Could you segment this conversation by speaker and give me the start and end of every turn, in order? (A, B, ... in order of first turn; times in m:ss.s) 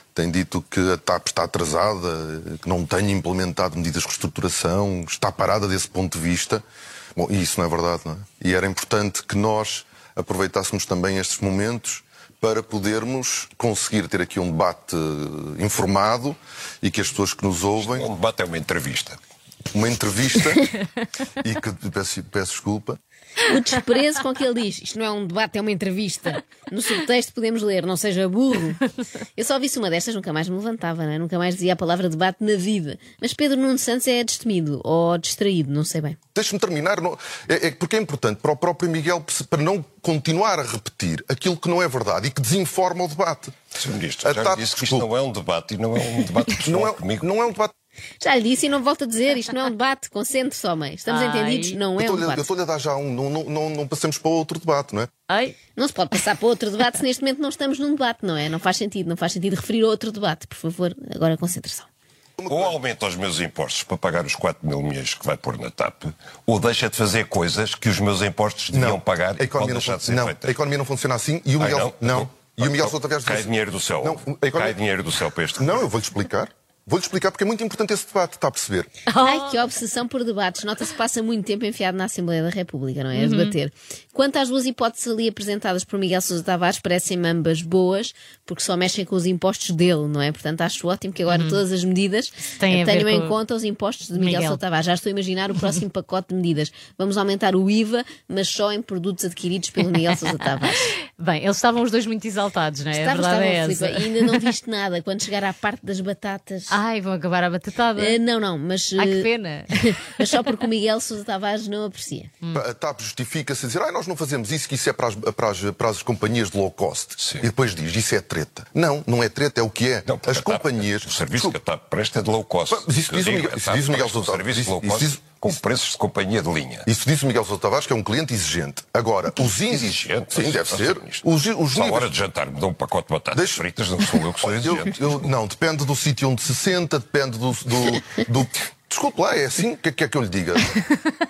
0:00.1-0:06.6 A
0:07.2-0:18.1 A
0:17.8-0:19.2 B
0:19.7-0:20.7 A
0:21.4-0:23.0 A
0:23.4-0:28.8 C
0:29.4-0:36.2 C
0:36.4-0:43.6 A
0:43.7-0:47.3 B
0:44.2-0:45.1 A
0:46.6-0:47.7 A
0:48.2-0:52.5 C
0:51.1-0:51.8 D
0:52.0-0:55.1 A
0:55.3-0:55.6 D
0:55.8-1:01.9 C
1:02.4-1:02.8 A
1:02.5-1:10.6 B
1:08.7-1:14.8 A
1:11.6-1:15.8 B
1:15.6-1:18.9 A
1:19.1-1:19.5 D
1:19.1-1:40.9 C
1:23.1-1:23.5 D
1:31.3-1:31.6 D
1:32.6-1:33.4 D
1:34.2-1:34.6 D
1:41.2-1:44.5 D
1:42.9-1:46.8 C
1:46.7-1:48.2 D
1:48.0-1:52.3 C
1:49.0-1:49.8 D
1:52.5-2:01.6 A
1:57.2-1:57.5 B
2:00.1-2:06.9 B
2:02.7-2:05.5 A
2:06.9-2:12.1 A
2:09.7-2:15.3 B
2:13.3-2:13.6 A
2:14.4-2:20.8 A